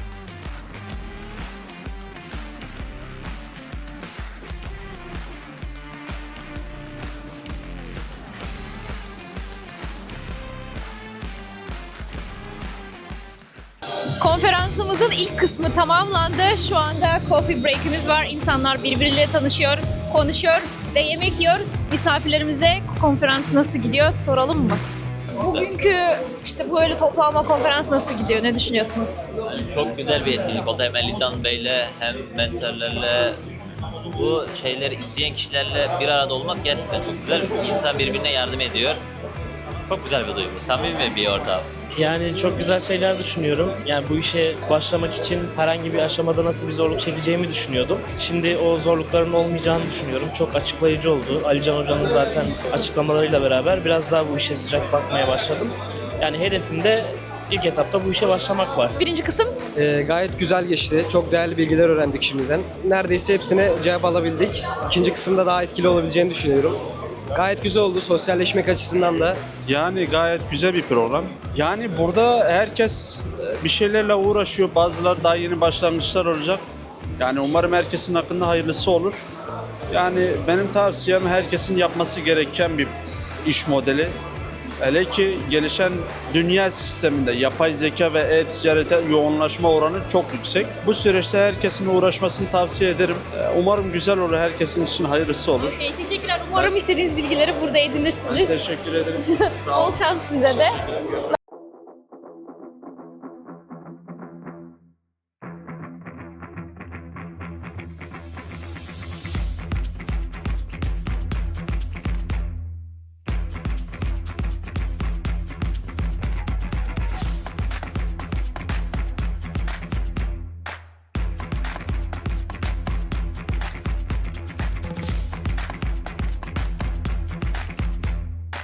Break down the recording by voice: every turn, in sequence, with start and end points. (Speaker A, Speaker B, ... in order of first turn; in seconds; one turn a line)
Speaker A: 14.2-24.8
Speaker A: 25.4-29.3
Speaker B: 29.5-33.4
Speaker B: 34.1-39.0
Speaker B: 39.9-41.8
Speaker C: 41.8-58.9
Speaker A: 59.0-59.5
Speaker D: 59.8-66.8
Speaker D: 67.4-69.4
Speaker E: 69.7-76.6
Speaker E: 77.2-79.2
Speaker E: 79.9-84.2
Speaker E: 84.8-95.8
Speaker A: 95.6-98.6
Speaker E: 98.3-99.8
Speaker A: 99.3-100.8